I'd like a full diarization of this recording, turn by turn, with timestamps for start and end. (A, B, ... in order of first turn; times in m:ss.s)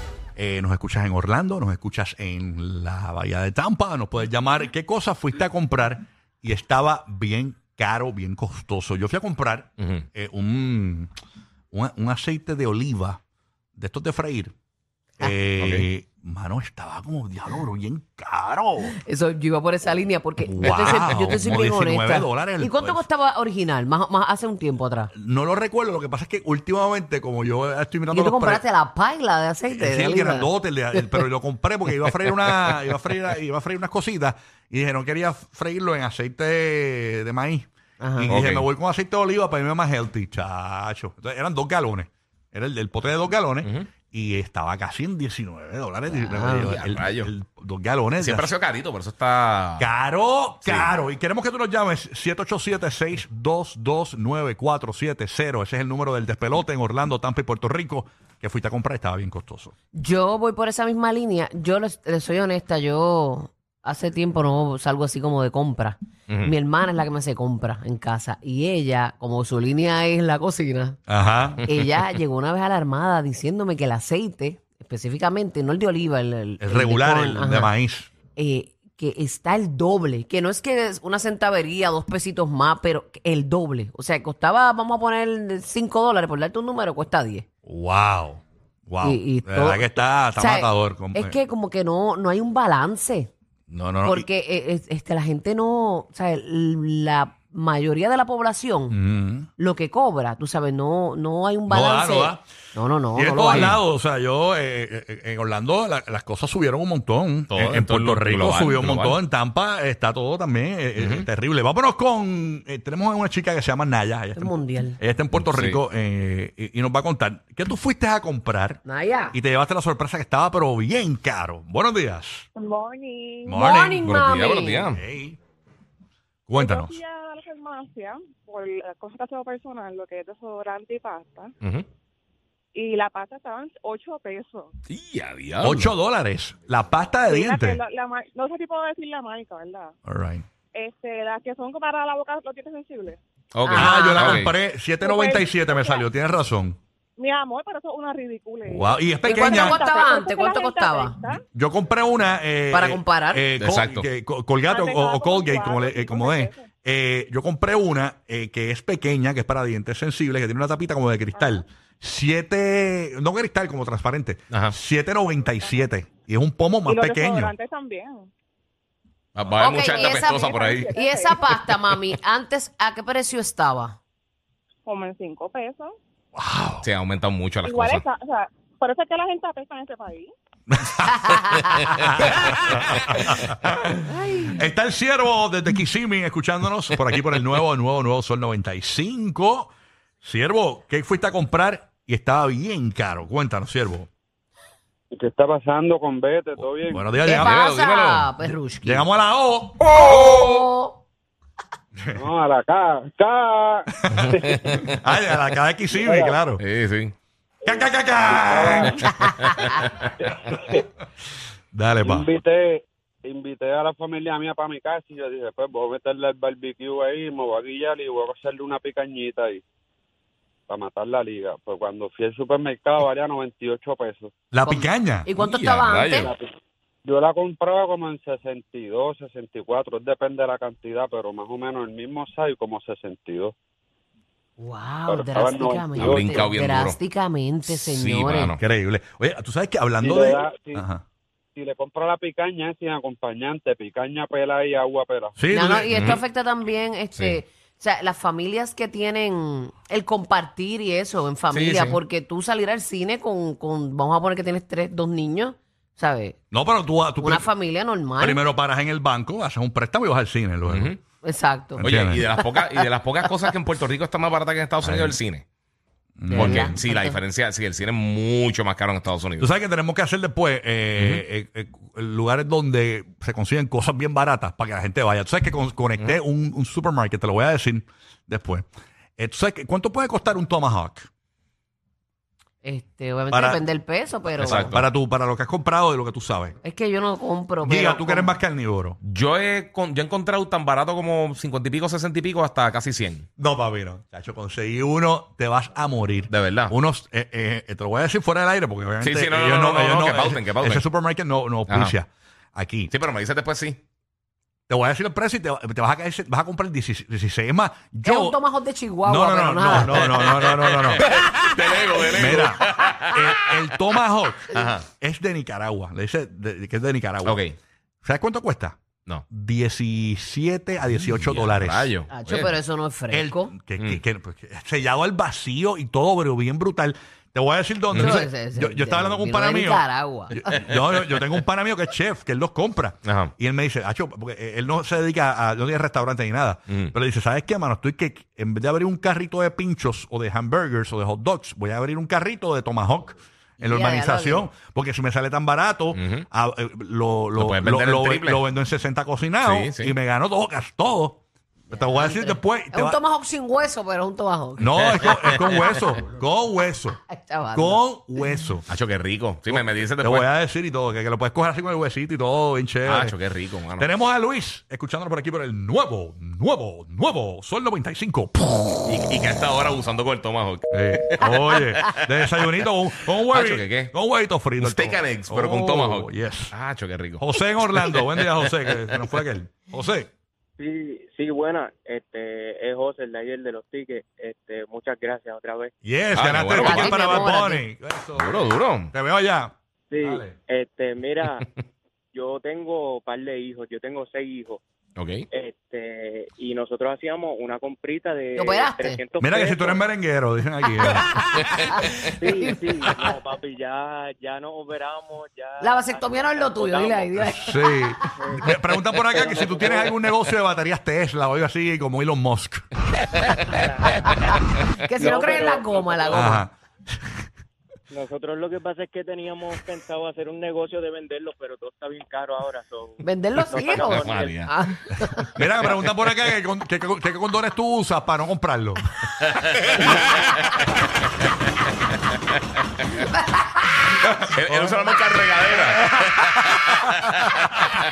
0:00.4-0:11.1 A
0:09.8-0:10.1 B
0:11.7-0:13.2 A
0:13.8-0:14.5 A
0:15.2-0:19.0 A
0:15.6-0:15.9 B
0:19.0-0:25.1 C
0:20.4-0:23.0 A
0:25.2-0:28.6 A
0:28.1-0:31.2 C
0:29.7-0:48.5 A
0:38.0-0:38.4 C
0:38.3-0:38.7 B
0:46.1-0:46.7 C
0:46.7-0:47.3 B
0:48.2-0:49.9 B
0:49.8-0:59.7 A
0:50.6-0:50.9 B
0:59.9-1:11.0 C
1:11.1-1:11.7 A
1:11.6-1:17.7 C
1:16.6-1:18.1 A
1:18.4-1:27.5 C
1:27.7-1:31.4 A
1:29.0-1:33.3 C
1:33.7-1:34.3 A
1:34.0-1:39.0 C
1:38.9-1:39.5 A
1:39.6-1:43.8 C
1:41.7-1:42.4 A
1:43.1-1:58.8 A
1:43.5-1:43.8 B
1:47.5-1:49.2 B
1:51.0-1:51.3 B
1:54.4-1:55.0 C
1:55.4-1:55.8 B
1:58.8-1:59.4 C
1:59.3-2:02.5 A
2:02.6-2:03.7 D
2:03.5-2:05.4 A
2:03.6-2:04.9 C
2:04.0-2:05.0 B
2:06.5-2:07.0 A
2:06.5-2:11.5 D
2:12.8-2:14.7 D
2:14.9-2:15.9 B
2:15.6-2:17.8 A
2:17.3-2:19.9 D
2:20.1-2:20.4 A
2:20.7-2:23.2 D
2:23.6-2:24.5 B
2:23.7-2:24.4 C
2:23.7-2:26.8 A
2:25.0-2:26.1 D
2:27.2-2:31.4 D
2:28.7-2:29.8 A
2:29.2-2:31.2 C
2:31.5-2:47.5 A
2:32.7-2:33.4 C
2:33.6-2:34.1 B
2:34.7-2:36.7 D
2:46.8-2:48.3 D
2:49.4-2:50.9 B
2:49.6-2:54.0 C
2:49.8-2:51.5 D
2:54.9-2:55.9 D
2:56.4-2:56.9 A
2:56.8-2:58.0 B
2:57.6-3:00.3 D
3:00.7-3:09.7 A
3:01.3-3:01.8 C
3:04.1-3:04.6 C
3:10.2-3:14.1 A
3:15.1-3:17.2 E
3:16.9-3:17.6 A
3:17.2-3:19.1 C
3:17.3-3:18.3 B
3:18.8-3:19.8 A
3:19.9-3:21.0 C
3:22.2-3:25.0 E
3:24.3-3:24.9 B
3:24.9-3:26.6 A
3:25.9-3:26.4 E
3:26.6-3:27.2 B
3:27.6-3:29.1 E
3:27.6-3:29.7 A
3:29.2-3:30.1 B
3:30.2-3:30.8 E
3:31.7-3:32.3 A
3:32.0-3:39.6 E
3:40.7-3:44.3 E
3:44.5-3:45.3 A
3:44.6-3:46.3 C
3:45.4-3:46.3 B
3:46.2-3:46.5 E
3:47.1-3:53.5 E
3:54.6-3:58.6 C
3:55.1-3:56.4 E
3:56.0-3:57.0 B
3:57.7-3:58.6 B
3:58.6-4:01.0 A
4:00.0-4:00.8 E
4:01.6-4:05.4 E
4:05.4-4:06.0 A
4:05.5-4:16.4 C
4:05.9-4:06.2 B
4:11.5-4:12.0 B
4:16.5-4:17.5 A
4:17.2-4:18.4 C
4:18.2-4:21.0 A
4:20.7-4:21.0 B
4:21.2-4:21.8 C
4:21.8-4:22.3 A
4:21.8-4:25.4 B
4:24.8-4:25.2 A
4:26.2-4:26.8 A
4:26.3-4:27.2 C
4:26.3-4:29.5 B
4:29.4-4:38.7 A
4:31.0-4:31.2 B
4:39.2-4:41.1 A
4:42.6-4:44.7 C
4:43.3-4:43.6 A
4:44.4-4:46.6 A
4:44.4-4:44.9 B
4:46.6-4:48.4 C
4:47.6-4:49.0 A
4:49.0-4:53.3 B
4:53.4-5:02.9 A
4:56.3-4:56.7 B
4:59.0-5:00.8 B
5:01.7-5:01.9 B
5:02.9-5:03.8 B
5:04.7-5:08.4 A
5:08.0-5:10.4 C
5:09.0-5:11.1 A
5:09.8-5:13.4 B
5:12.0-5:17.4 A
5:14.5-5:14.9 B
5:17.2-5:17.6 B
5:18.0-5:18.8 A
5:19.3-5:22.4 A
5:21.1-5:22.5 B
5:22.1-5:23.6 C
5:23.1-5:53.0 A
5:27.9-5:28.2 B
5:28.0-5:30.6 C
5:33.1-5:33.3 B
5:43.6-5:44.5 C
5:45.9-5:46.3 B
5:47.4-5:48.4 B
5:49.4-5:50.0 B
5:51.7-5:55.7 C
5:54.6-5:57.0 A
5:57.1-5:58.4 C
5:57.5-5:58.7 A
5:58.7-6:00.3 B
5:59.5-6:03.2 A
6:02.8-6:03.9 B
6:03.8-6:08.8 A
6:08.8-6:12.0 B
6:10.7-6:16.5 A
6:13.3-6:13.9 B
6:14.6-6:18.8 B
6:17.2-6:20.1 A
6:20.6-6:25.7 F
6:25.8-6:30.4 A
6:26.1-6:27.0 B
6:26.6-6:27.7 C
6:28.2-6:28.9 B
6:29.9-6:31.4 F
6:32.1-6:34.6 F
6:35.0-6:35.3 B
6:35.3-6:39.8 F
6:38.4-6:39.0 C
6:39.2-6:41.6 A
6:40.8-6:42.6 C
6:42.0-6:47.1 F
6:45.6-6:48.2 C
6:47.3-6:52.7 A
6:48.2-6:50.0 F
6:53.5-6:53.8 F
6:54.0-6:56.4 C
6:55.0-6:56.4 F
6:56.1-6:56.5 A
6:57.9-7:04.4 F
7:03.0-7:05.4 C
7:03.8-7:04.5 B
7:05.3-7:08.9 A
7:09.6-7:10.5 B
7:13.0-7:13.7 C
7:14.0-7:14.9 A
7:14.3-7:17.5 B
7:15.8-7:17.5 A